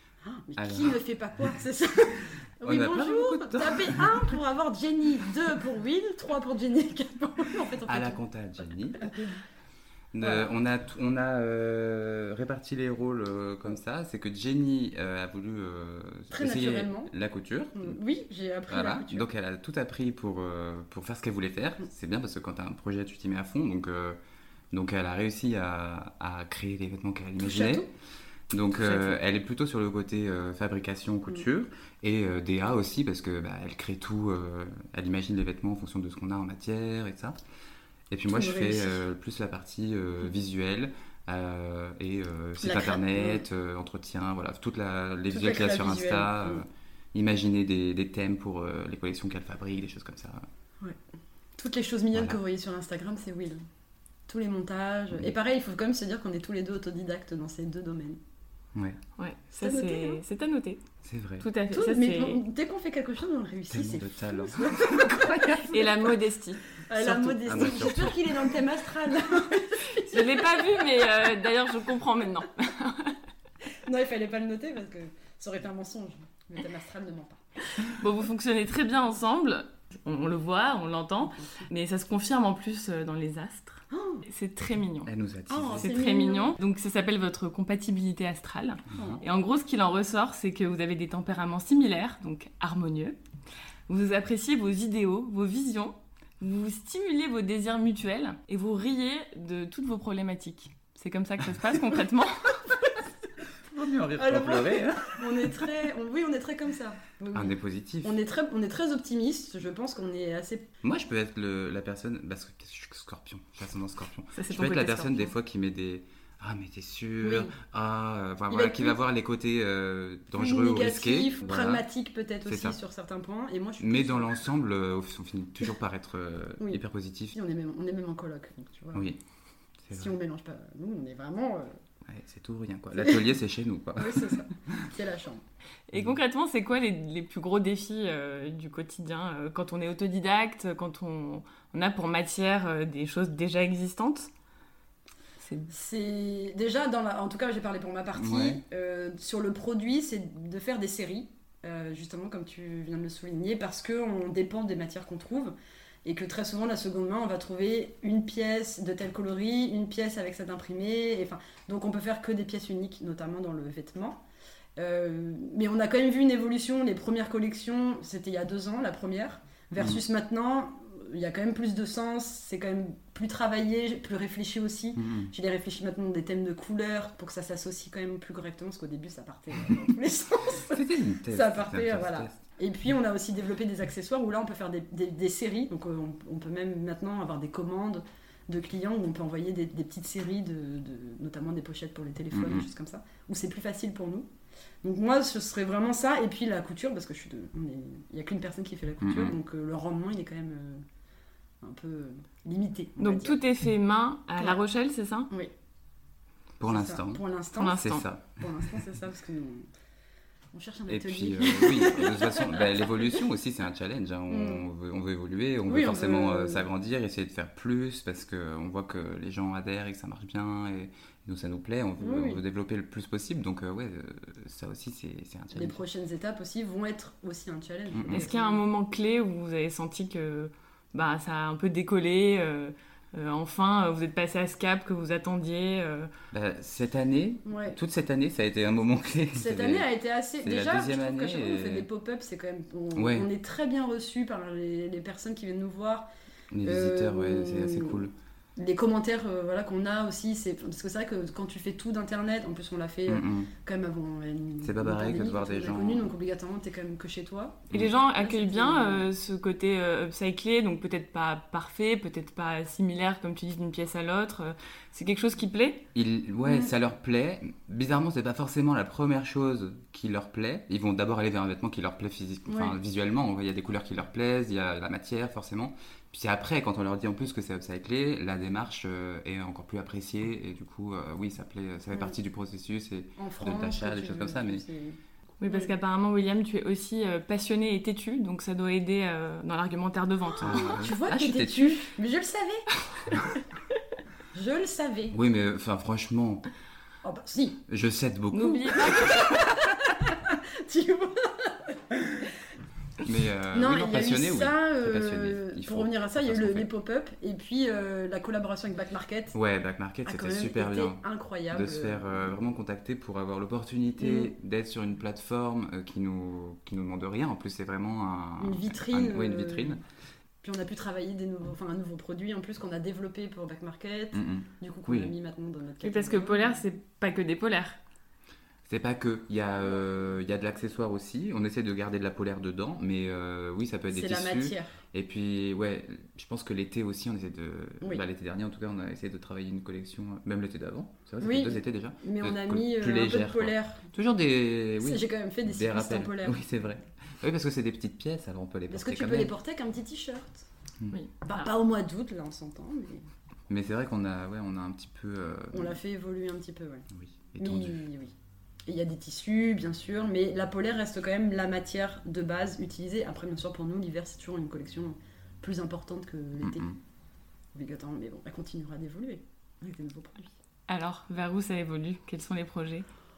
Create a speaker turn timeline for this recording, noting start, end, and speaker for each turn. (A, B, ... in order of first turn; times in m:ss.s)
0:00.2-0:08.2 A
0:00.6-0:01.0 B
0:02.6-0:04.3 B
0:07.8-0:09.1 B
0:09.0-0:09.4 A
0:10.1-0:18.0 B
0:10.2-0:10.5 A
0:16.3-0:17.1 A
0:17.7-0:19.3 A
0:18.7-0:24.2 B
0:24.7-0:27.9 B
0:27.4-0:27.9 A
0:28.5-0:37.4 B
0:28.8-0:29.2 A
0:38.1-0:50.4 B
0:38.3-0:39.0 A
0:42.6-0:43.4 A
0:45.3-0:46.6 A
0:51.6-0:53.6 A
0:52.1-0:52.4 B
0:54.3-0:58.2 A
0:59.2-1:00.8 C
0:59.6-1:00.2 A
1:01.0-1:01.5 B
1:01.4-1:02.4 C
1:01.7-1:05.8 A
1:03.7-1:05.9 B
1:05.7-1:06.6 C
1:06.8-1:10.8 A
1:07.0-1:08.5 B
1:10.0-1:13.2 C
1:13.8-1:17.4 A
1:17.8-1:25.1 C
1:21.2-1:21.6 A
1:23.9-1:24.2 A
1:25.1-1:25.9 B
1:25.5-1:26.5 A
1:25.8-1:33.2 C
1:28.9-1:29.2 A
1:33.9-1:42.7 C
1:43.5-1:45.8 B
1:44.2-1:50.7 A
1:47.3-1:48.2 B
1:50.8-2:01.8 B
1:54.3-1:55.3 C
1:57.2-1:57.5 A
1:58.5-1:59.0 A
2:00.3-2:04.3 A
2:02.4-2:02.8 B
2:03.8-2:07.4 B
2:07.3-2:09.1 A
2:09.8-2:10.1 B
2:09.9-2:11.7 A
2:12.0-2:14.8 B
2:13.0-2:13.2 A
2:14.0-2:15.4 A
2:15.9-2:24.3 C
2:25.4-2:25.7 C
2:25.7-2:35.5 A
2:28.2-2:28.6 B
2:36.0-2:44.2 A
2:44.8-3:14.3 A
2:49.8-2:50.0 B
2:55.0-2:55.3 B
3:00.7-3:02.4 B
3:12.3-3:12.7 B
3:14.8-3:20.8 A
3:19.0-3:19.4 B
3:21.6-3:23.4 A
3:23.0-3:25.3 C
3:26.6-3:27.2 B
3:26.6-3:27.8 A
3:27.6-3:28.0 C
3:27.8-3:28.4 B
3:28.3-3:29.7 A
3:30.5-3:33.2 A
3:30.9-3:45.8 B
3:34.3-3:34.6 A
3:35.7-3:36.6 A
3:42.0-3:42.4 A
3:45.5-3:48.6 A
3:47.9-3:48.3 B
3:48.1-3:56.1 C
3:56.3-3:59.9 B
3:57.4-3:57.8 A
3:59.3-4:06.1 A
4:00.4-4:01.9 B
4:02.9-4:03.3 B
4:06.5-4:08.1 B
4:06.6-4:08.0 A
4:08.6-4:19.1 A
4:13.1-4:13.5 B
4:14.6-4:16.1 B
4:17.7-4:25.8 C
4:25.9-4:44.6 B
4:26.4-4:26.7 A
4:32.5-4:32.8 A
4:43.2-4:45.7 A
4:45.4-4:50.8 C
4:50.4-4:51.9 B
4:50.4-4:52.6 A
4:54.3-4:55.2 A
4:55.1-4:56.4 B
4:57.0-4:57.6 A
4:57.7-4:59.1 B
4:58.3-4:59.1 C
4:58.8-5:02.3 A
5:03.0-5:06.7 B
5:03.5-5:09.4 A
5:09.3-5:19.8 B
5:10.0-5:12.3 A
5:14.0-5:14.3 A
5:18.4-5:19.8 A
5:20.4-5:26.6 A
5:24.1-5:25.1 B
5:25.8-5:27.8 C
5:28.7-5:49.3 B
5:33.9-5:34.8 A
5:41.2-5:43.8 A
5:44.8-5:46.5 A
5:48.7-5:50.4 A
5:50.9-5:51.5 C
5:51.2-5:53.0 A
5:53.5-5:55.8 B
5:55.5-5:56.8 A
5:56.9-5:57.8 B
5:57.4-5:58.1 A
5:58.6-6:06.7 A
6:06.4-6:06.8 B
6:07.5-6:10.3 A
6:10.7-6:12.8 C